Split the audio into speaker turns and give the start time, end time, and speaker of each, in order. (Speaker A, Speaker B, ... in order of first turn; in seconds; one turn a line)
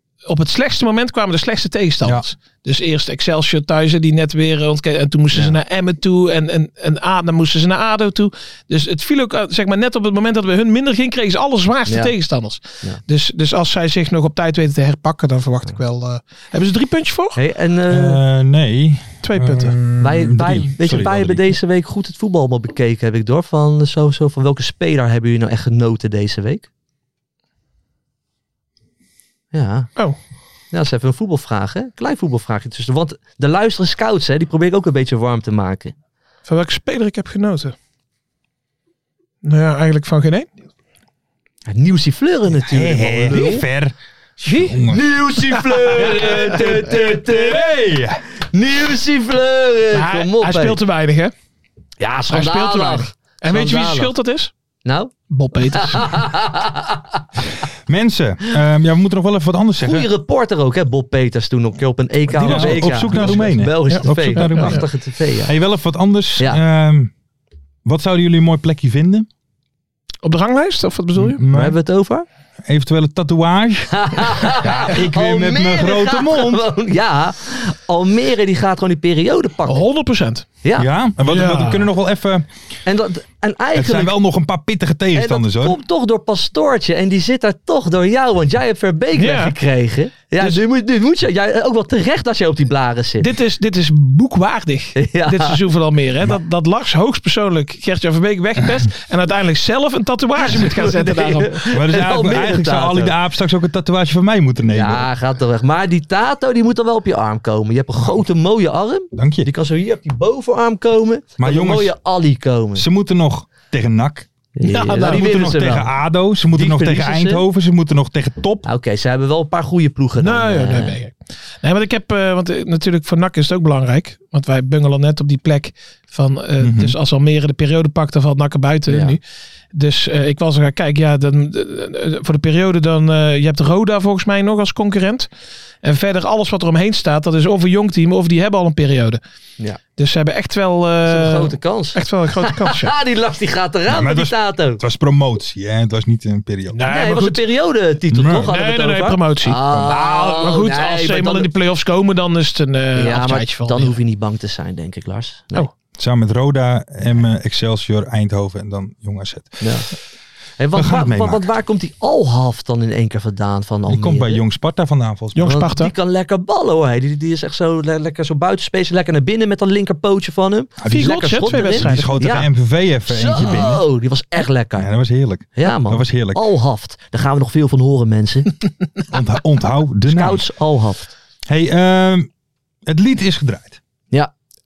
Speaker A: 0.3-17.4
Speaker B: 5.3-5.6
Speaker B: 11.9-12.1
Speaker B: 17.4-18.2
Speaker C: 17.9-21.6
Speaker A: 19.2-19.8
Speaker B: 20.0-26.7
Speaker B: 29.5-29.9
Speaker B: 30.7-36.0
Speaker A: 36.5-37.8
Speaker A: 39.4-40.5
Speaker B: 41.7-43.6
Speaker C: 42.6-48.2
Speaker A: 44.5-44.8
Speaker B: 44.9-47.7
Speaker A: 45.9-46.4
Speaker B: 48.5-50.8
Speaker A: 49.9-51.3
Speaker B: 52.0-54.1
Speaker A: 52.3-54.5
Speaker B: 54.9-55.1
Speaker A: 55.3-56.2
Speaker B: 55.7-57.4
Speaker C: 57.9-60.1
Speaker B: 59.8-65.5
Speaker A: 62.4-64.8
Speaker C: 62.4-64.9
Speaker C: 65.4-67.1
Speaker C: 67.8-69.3
Speaker A: 70.2-71.4
Speaker C: 71.2-71.8
Speaker B: 71.5-72.3
Speaker C: 72.7-76.6
Speaker B: 73.9-79.8
Speaker A: 79.7-80.5
Speaker C: 80.8-82.5
Speaker A: 81.2-81.9
Speaker B: 82.9-84.1
Speaker C: 83.7-85.8
Speaker B: 85.1-93.3
Speaker A: 89.2-89.5
Speaker A: 93.2-101.6
Speaker B: 95.0-95.6
Speaker B: 100.4-103.1
Speaker C: 101.7-105.1
Speaker B: 104.7-112.8
Speaker C: 109.1-109.5
Speaker C: 111.4-111.9
Speaker C: 112.8-114.3
Speaker B: 114.6-115.9
Speaker A: 114.6-115.5
Speaker C: 114.8-118.7
Speaker B: 116.5-117.5
Speaker B: 118.6-121.0
Speaker A: 120.2-129.2
Speaker C: 126.6-127.0
Speaker B: 128.9-129.2
Speaker A: 129.7-135.3
Speaker A: 135.8-139.2
Speaker A: 140.0-142.9
Speaker B: 141.1-144.8
Speaker C: 143.9-146.9
Speaker A: 146.7-147.4
Speaker B: 146.8-151.5
Speaker C: 148.1-148.5
Speaker A: 148.4-154.0
Speaker B: 152.9-155.7
Speaker C: 156.0-159.7
Speaker B: 159.6-159.9
Speaker B: 160.6-164.4
Speaker C: 160.7-161.5
Speaker C: 163.9-165.6
Speaker A: 165.3-165.9
Speaker B: 165.4-172.5
Speaker C: 170.8-173.8
Speaker A: 170.9-172.4
Speaker B: 173.1-174.9
Speaker C: 174.8-176.4
Speaker B: 175.6-178.5
Speaker C: 179.1-180.4
Speaker B: 180.1-181.1
Speaker C: 181.5-182.3
Speaker C: 182.9-183.8